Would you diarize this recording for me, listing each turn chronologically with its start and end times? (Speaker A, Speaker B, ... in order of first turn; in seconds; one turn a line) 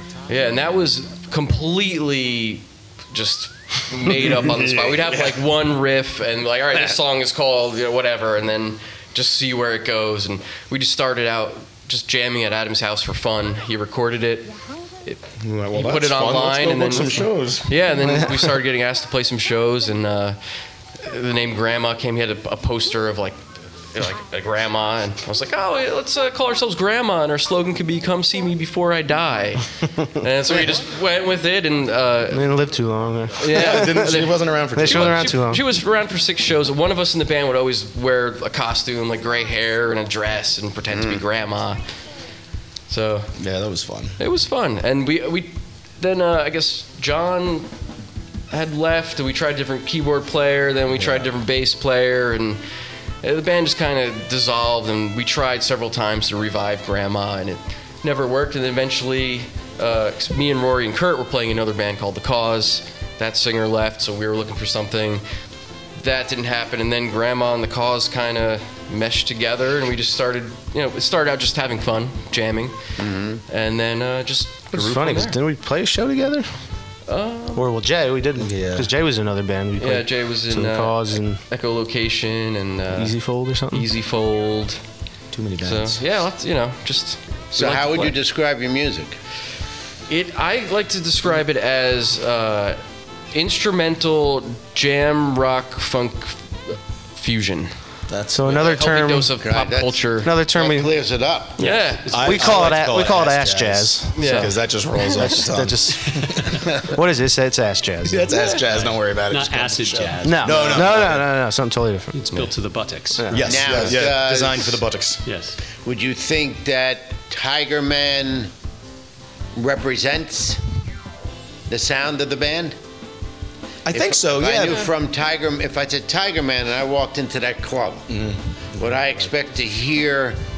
Speaker A: 0.3-15.2
Speaker B: 4.2-5.3
Speaker C: 15.4-17.9
Speaker A: 15.7-20.4
Speaker D: 18.0-18.3
Speaker A: 21.0-32.5
Speaker D: 32.3-35.6
Speaker A: 33.4-41.9
Speaker C: 33.5-35.3
Speaker B: 40.9-41.2
Speaker A: 42.9-43.4
Speaker C: 43.4-44.2
Speaker A: 44.2-47.7
Speaker A: 48.5-52.6
Speaker C: 50.9-51.3
Speaker A: 53.2-65.2
Speaker A: 66.0-72.8
Speaker B: 73.0-73.4
Speaker A: 73.5-75.4
Speaker D: 74.7-76.5
Speaker A: 77.1-77.7
Speaker D: 77.5-81.4
Speaker C: 78.4-78.9
Speaker A: 79.8-83.2
Speaker D: 82.9-83.8
Speaker A: 83.7-84.8
Speaker C: 85.3-86.0
Speaker A: 85.6-88.2
Speaker B: 87.5-89.2
Speaker A: 90.1-92.8
Speaker A: 93.3-97.7
Speaker C: 98.1-98.5
Speaker D: 98.3-99.3
Speaker A: 98.4-100.3
Speaker B: 99.4-102.0
Speaker D: 100.2-100.9
Speaker A: 101.6-102.1
Speaker E: 102.1-102.4
Speaker C: 102.1-106.7
Speaker D: 102.1-104.5
Speaker A: 104.2-105.3
Speaker D: 105.1-108.3
Speaker C: 108.0-111.3
Speaker A: 108.3-108.6
Speaker E: 109.3-111.0
Speaker D: 110.2-112.2
Speaker E: 112.1-113.3
Speaker D: 113.2-113.9
Speaker C: 113.3-115.2
Speaker B: 113.4-114.8
Speaker E: 115.2-115.6
Speaker B: 115.8-118.5
Speaker B: 119.5-120.6
Speaker B: 121.7-122.8
Speaker C: 123.8-124.9
Speaker B: 123.9-128.1
Speaker C: 128.1-129.3
Speaker B: 128.8-130.4